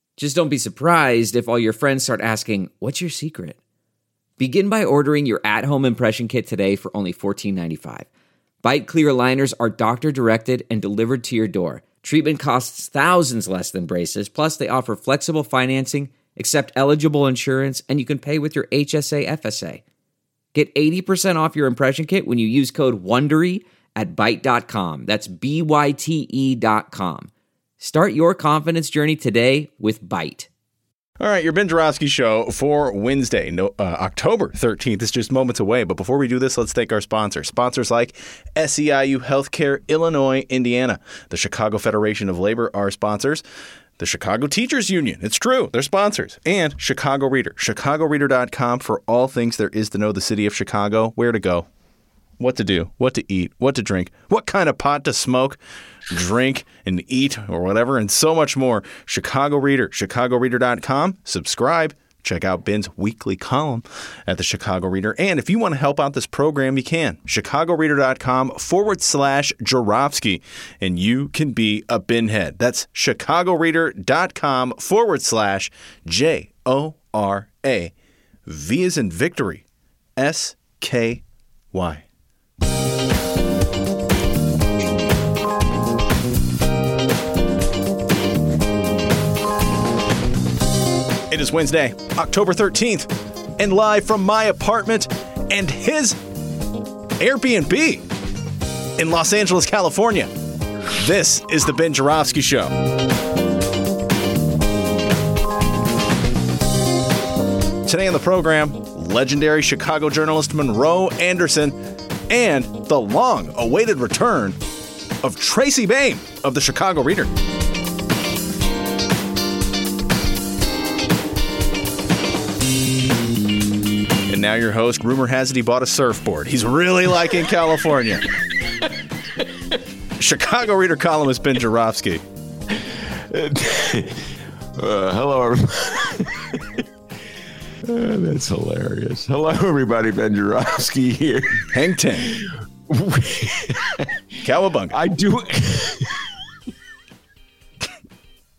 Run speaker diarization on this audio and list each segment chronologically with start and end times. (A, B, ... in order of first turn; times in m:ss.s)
0:00.2-0:03.6 A
0:04.4-0:08.1 A
0:08.6-0:19.8 A
0:20.5-0:27.3 A
0:27.8-0:30.5 A
0:31.2-0:43.4 B
0:44.0-0:51.7 B
0:52.4-0:55.6 B
0:56.1-1:17.9 B
1:18.4-1:19.6 B
1:20.2-1:22.0 B
1:31.3-1:36.2 B
1:37.2-1:38.0 B
1:39.0-1:40.3 B
1:41.0-1:42.7 B
1:47.8-1:51.8 B
1:52.3-1:54.6 B
1:55.2-1:57.3 B
2:04.3-2:08.3 B
2:10.2-2:12.2 B
2:12.7-2:16.8 C
2:17.8-2:21.7 C
2:21.7-2:22.3 B
2:22.2-2:24.1 C
2:24.4-2:25.0 B
2:24.9-2:26.2 C